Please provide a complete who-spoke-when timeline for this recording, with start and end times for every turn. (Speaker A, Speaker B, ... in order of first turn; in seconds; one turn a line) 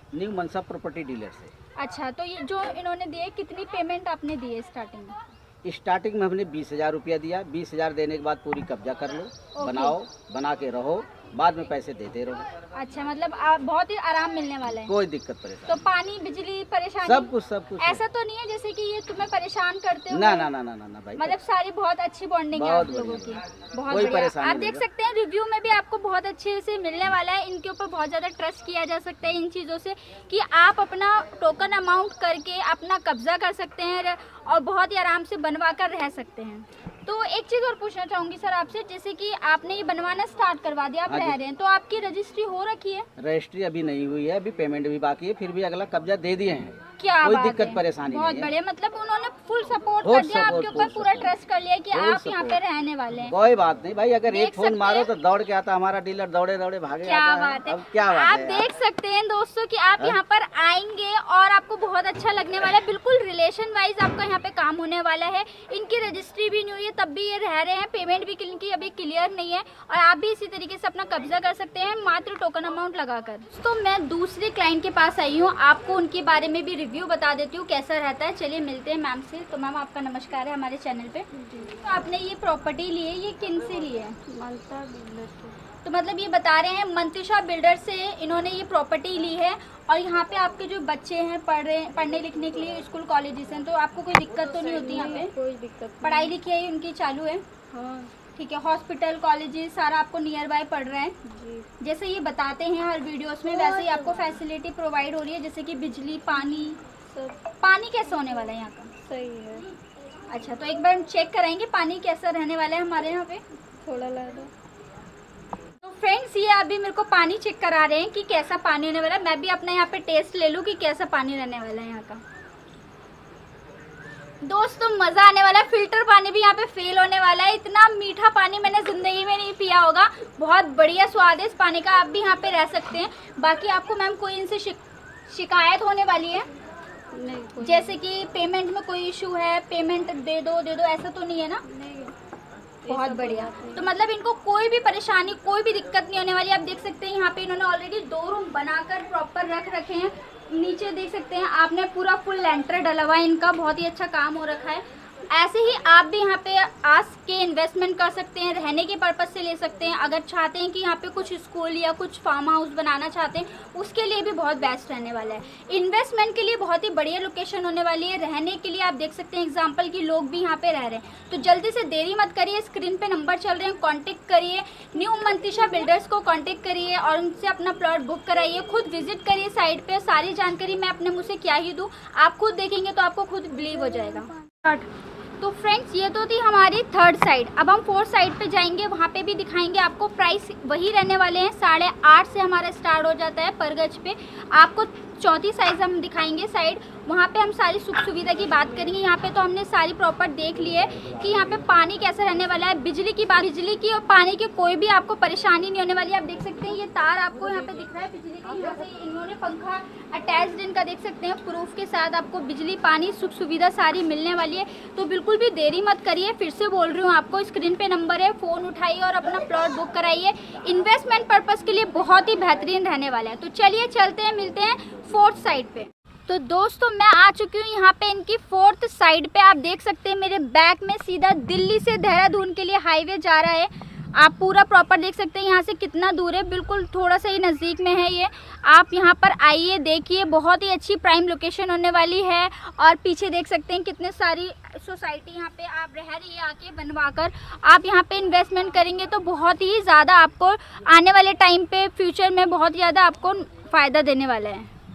Speaker A: 0.1-1.5
Speaker B: 1.8-5.2
Speaker A: 5.6-12.5
Speaker B: 9.5-10.0
Speaker B: 12.7-14.9
Speaker A: 14.6-15.8
Speaker B: 15.6-20.5
Speaker A: 17.0-18.0
Speaker A: 20.1-21.4
Speaker B: 21.2-43.1
Speaker A: 22.5-24.8
Speaker A: 41.1-41.4
Speaker A: 43.2-48.5
Speaker B: 47.0-53.3
Speaker A: 50.0-51.3
Speaker A: 51.9-52.6
Speaker A: 53.2-58.7
Speaker B: 54.3-55.1
Speaker B: 57.0-84.2
Speaker C: 81.4-81.8
Speaker C: 84.3-85.6
Speaker B: 85.8-95.3
Speaker C: 94.4-96.4
Speaker B: 96.0-97.4
Speaker C: 97.7-98.1
Speaker B: 98.3-101.1
Speaker C: 101.2-101.7
Speaker B: 101.8-106.8
Speaker C: 103.5-104.2
Speaker C: 107.1-107.5
Speaker B: 107.6-108.9
Speaker C: 109.0-109.7
Speaker B: 110.3-113.4
Speaker C: 113.8-114.5
Speaker B: 115.8-122.2
Speaker B: 124.4-136.5
Speaker C: 137.1-138.0
Speaker B: 137.6-141.6
Speaker C: 141.6-142.1
Speaker C: 142.8-143.9
Speaker B: 142.9-184.8
Speaker B: 185.4-254.7